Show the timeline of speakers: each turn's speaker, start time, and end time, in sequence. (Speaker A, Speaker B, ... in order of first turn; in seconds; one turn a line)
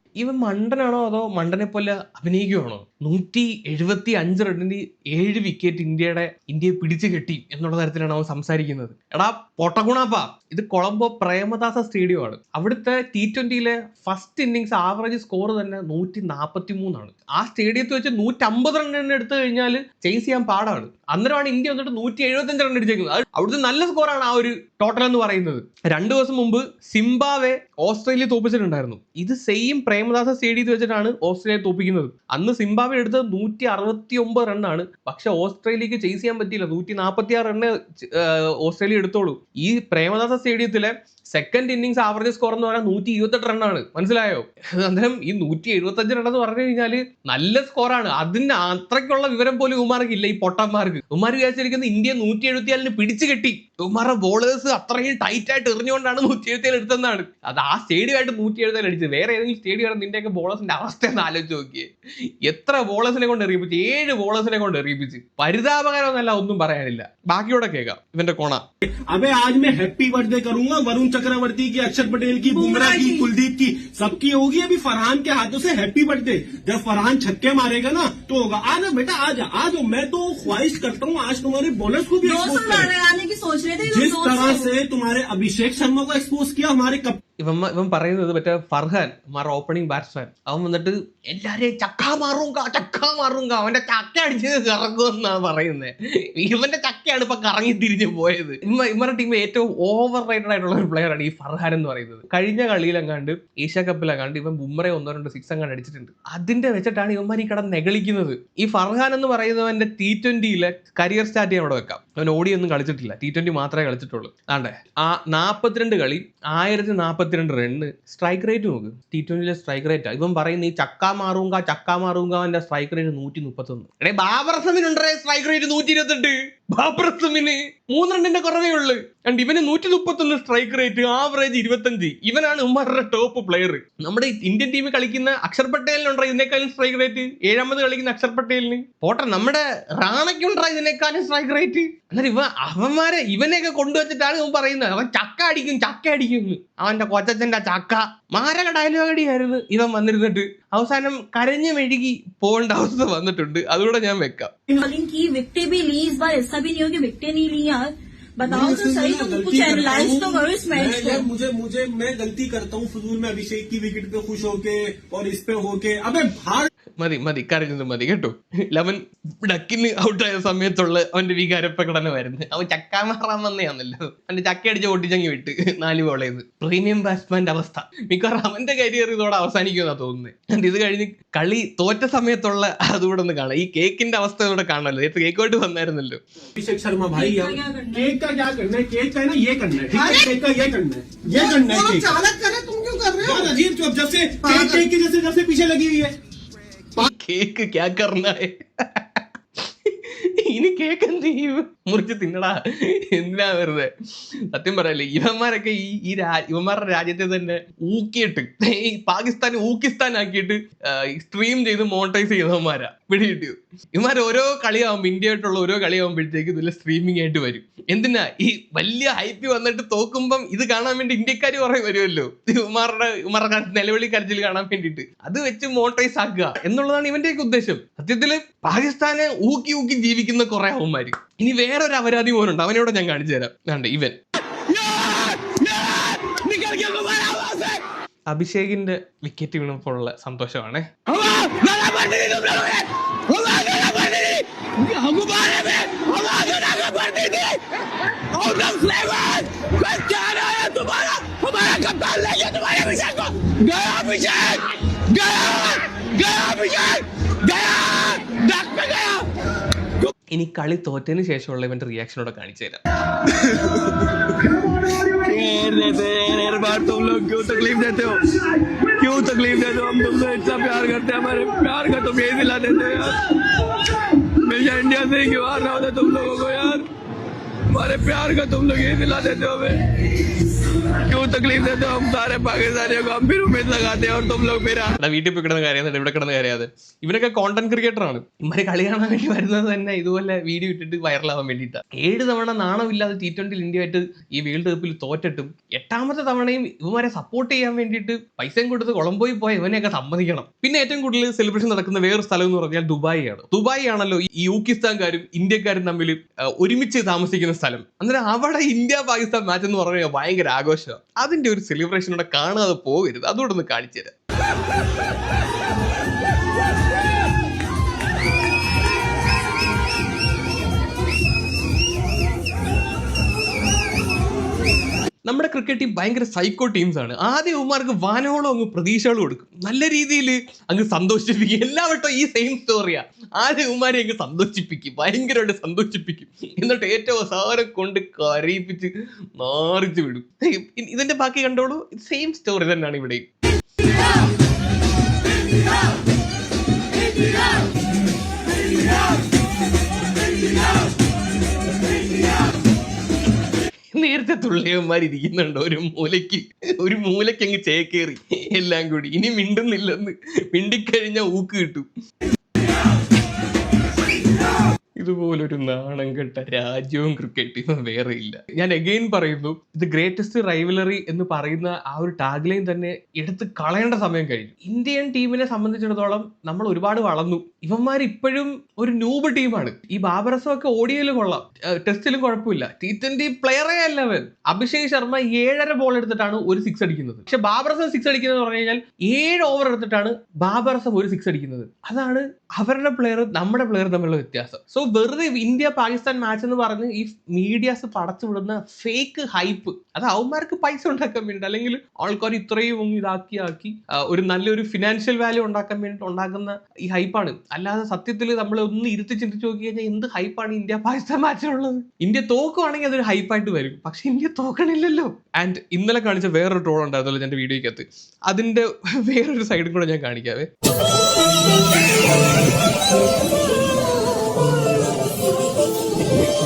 Speaker A: 0.2-61.9
Speaker A: 62.4-68.6
Speaker B: 69.1-82.9
Speaker C: 72.5-73.3
Speaker C: 82.2-84.7
Speaker B: 83.9-87.2
Speaker A: 87.4-154.5
Speaker C: 154.8-161.2
Speaker B: 158.5-166.7
Speaker A: 167.0-186.2
Speaker B: 186.6-192.3
Speaker C: 187.1-188.1
Speaker D: 191.3-193.4
Speaker B: 193.2-196.1
Speaker D: 194.5-194.8
Speaker A: 196.9-199.2
Speaker A: 199.8-203.9
Speaker A: 204.5-234.1
Speaker D: 234.7-237.8
Speaker E: 236.6-237.0
Speaker A: 238.3-240.9
Speaker D: 241.2-244.4
Speaker E: 241.8-242.7
Speaker E: 244.9-245.3
Speaker D: 245.3-247.5
Speaker D: 248.4-253.9
Speaker E: 248.4-249.0
Speaker E: 249.9-250.9
Speaker E: 253.8-254.5
Speaker E: 255.3-259.2
Speaker A: 260.3-262.8
Speaker E: 265.2-268.2
Speaker E: 268.9-273.2
Speaker E: 274.4-276.8
Speaker E: 277.7-279.8
Speaker E: 281.0-284.9
Speaker A: 285.0-314.1
Speaker A: 325.3-343.2
Speaker A: 353.9-361.9
Speaker A: 365.0-420.5